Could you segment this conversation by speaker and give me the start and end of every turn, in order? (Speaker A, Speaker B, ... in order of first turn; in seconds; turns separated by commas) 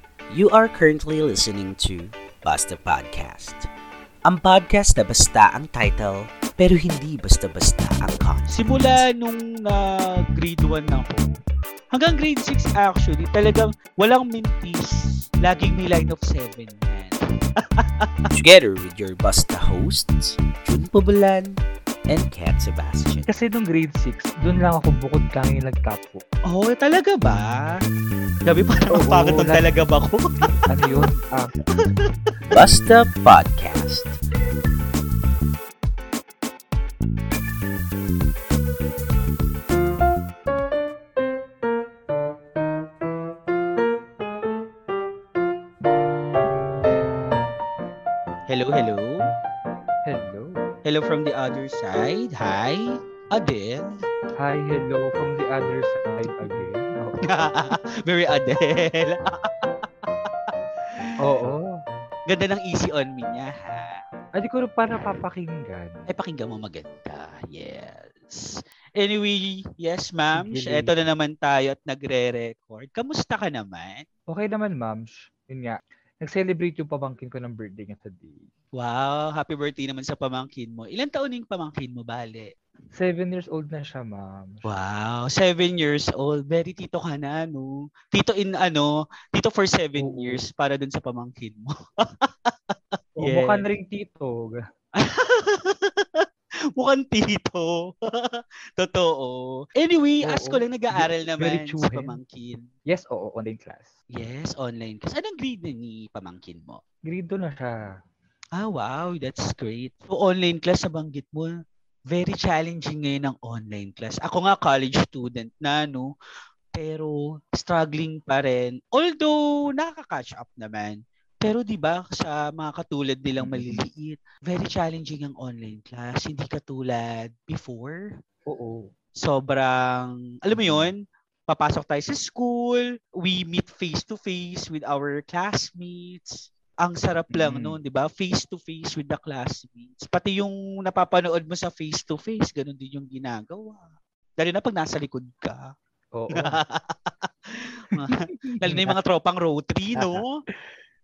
Speaker A: 0.3-3.7, Speaker A: 4.2-9.0, Speaker B: 8.5-11.3, Speaker B: 11.9-18.1, Speaker A: 18.4-23.3, Speaker C: 23.3-26.2, Speaker B: 26.5-27.8, Speaker B: 28.4-30.3, Speaker C: 28.9-29.7, Speaker C: 30.7-31.5, Speaker B: 31.8-32.1, Speaker A: 32.5-34.2, Speaker B: 48.5-49.2, Speaker C: 50.0-50.7, Speaker B: 50.9-53.9, Speaker C: 54.4-57.2, Speaker B: 57.3-59.7, Speaker C: 61.2-61.7, Speaker B: 62.3-64.0, Speaker C: 64.3-66.1, Speaker B: 66.1-74.1, Speaker C: 70.4-70.9, Speaker C: 74.3-78.4, Speaker B: 78.8-82.5, Speaker C: 82.9-84.7, Speaker B: 84.6-91.7, Speaker C: 90.0-90.4, Speaker B: 92.2-92.5, Speaker C: 93.2-94.6, Speaker B: 93.2-93.7, Speaker B: 95.0-96.2, Speaker B: 96.8-102.7, Speaker C: 100.2-102.2, Speaker C: 102.9-103.9, Speaker B: 104.1-106.8, Speaker C: 107.0-107.9, Speaker B: 108.6-111.5, Speaker B: 112.1-116.1, Speaker B: 116.8-128.0, Speaker C: 123.4-123.8, Speaker C: 128.5-128.9, Speaker B: 129.2-143.9, Speaker C: 130.5-130.9, Speaker C: 137.3-137.8, Speaker B: 144.4-145.7, Speaker C: 146.1-146.6, Speaker B: 146.4-147.2, Speaker B: 147.9-150.3, Speaker C: 148.5-149.0, Speaker C: 150.0-150.2